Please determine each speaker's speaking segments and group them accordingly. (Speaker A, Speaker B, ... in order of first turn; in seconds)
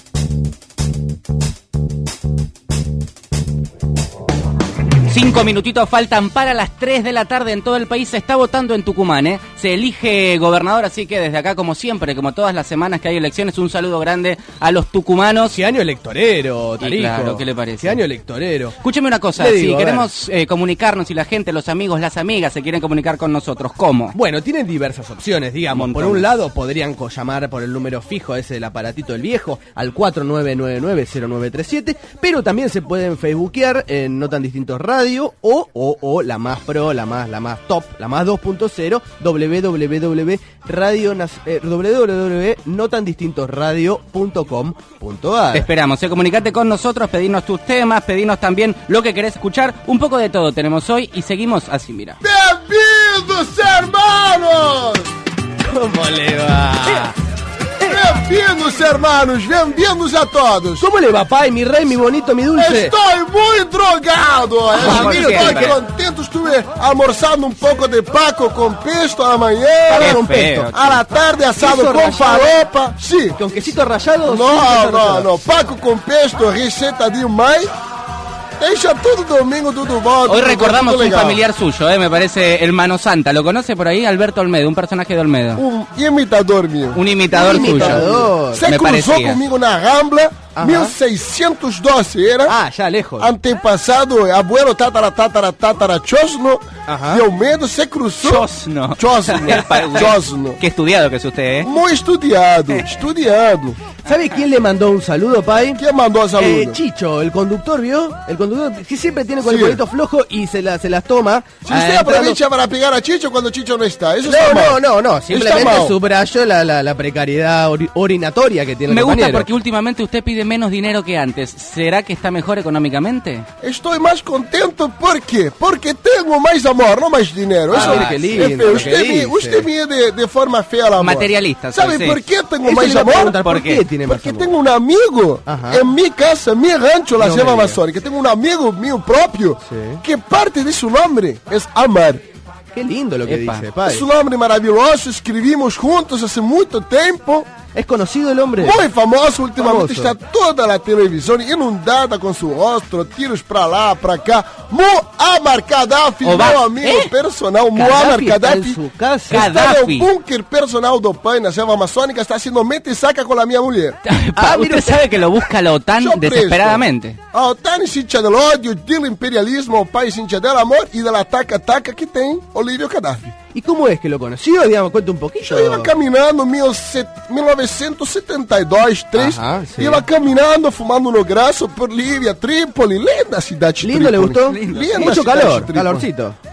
Speaker A: 5.1-15.6, 16.8-18.0, 18.8-24.1, 25.7-26.3, 45.5-52.2, 64.7-65.8, 69.9-70.8, 80.3-85.6, 86.9-89.4, 98.2-101.7, 118.9-123.5, 127.7-128.9, 131.0-132.2, 133.4-133.8, 143.2-143.7, 156.2-157.1, 159.3-160.1, 164.0-167.2, 184.5-185.1
Speaker B: 15.4-18.7, 19.4-20.1, 24.1-45.7, 55.6-57.1, 60.8-62.9, 64.7-65.7, 69.9-70.7, 71.6-72.6, 73.3-75.3, 87.3-88.6, 90.5-91.0, 92.5-93.3, 96.8-97.2, 104.0-105.8, 106.4-112.4, 114.2-119.5, 127.7-129.7, 132.6-134.5, 135.4-135.8, 137.2-137.8, 139.6-140.0, 142.7-144.1, 147.7-148.8, 149.6-150.1, 157.8-159.5, 164.4-165.1, 173.5-175.9, 179.1-180.0, 183.8-186.4
Speaker C: 52.2-55.0, 57.8-60.9, 62.5-73.3, 74.2-77.7, 78.6-81.4, 85.6-92.6, 93.2-98.5, 99.0-100.6, 101.6-103.8, 105.8-106.8, 109.4-109.8, 111.6-115.9, 123.6-142.2, 143.8-147.5, 148.6-164.0, 166.0-166.8, 167.3-173.3, 175.4-186.1